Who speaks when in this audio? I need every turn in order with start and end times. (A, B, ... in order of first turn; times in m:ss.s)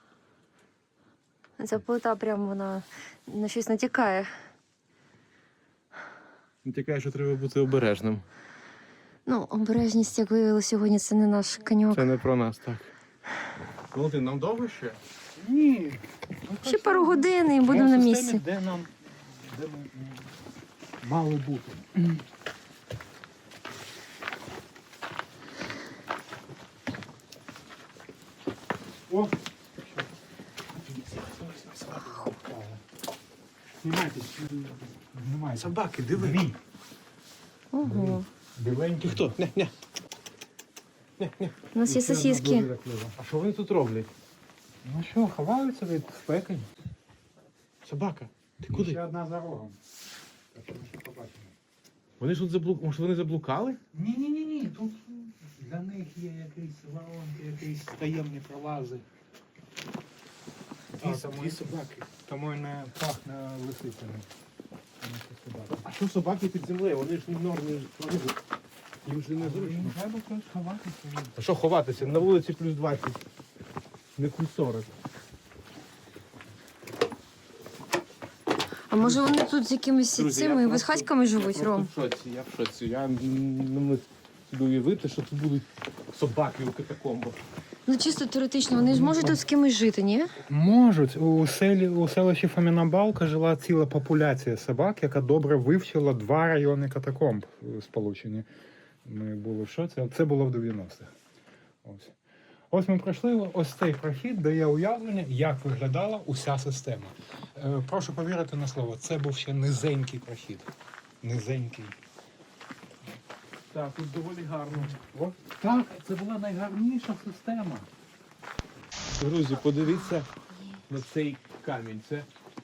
0:01.6-0:04.3 A
0:06.6-0:08.2 B
0:09.3-0:12.1 A
0:11.9-0:12.9 B
0:13.9-0:15.0 B
0:15.4-0:20.4 C
0:16.6-0:18.4 A
0:21.0-0:22.2 C
0:29.1-0:30.1 C
0:30.9-0:32.8 C
0:31.0-0:32.2 B
0:33.8-0:36.5 C
0:35.6-0:36.6 B
0:37.7-0:38.3 A
0:37.8-0:39.3 C
0:39.0-0:39.7 B
0:41.2-0:41.7 B
0:41.8-0:42.7 A
0:41.9-0:43.2 C
0:43.2-0:44.1 B
0:44.8-0:46.7 C
0:47.8-0:49.0 B
0:48.7-0:49.8 C
0:50.5-0:51.6 C
0:52.2-0:53.8 B
0:53.9-0:59.0 C
1:01.0-1:01.8 B
1:01.0-1:04.3 C
1:05.0-1:05.8 C
1:05.7-1:08.4 B
1:09.0-1:10.0 B
1:09.4-1:11.4 C
1:11.4-1:13.2 B
1:14.2-1:14.9 B
1:18.9-1:21.9 A
1:19.0-1:19.3 B
1:20.2-1:27.4 B
1:27.9-1:30.4 A
1:28.8-1:29.4 C
1:30.5-1:38.5 C
1:39.0-1:41.1 C
1:41.8-1:42.1 C
1:42.7-1:52.0 C
1:53.7-1:55.0 B
1:54.9-1:57.9 C
1:59.1-2:00.3 B
2:00.9-2:02.3 B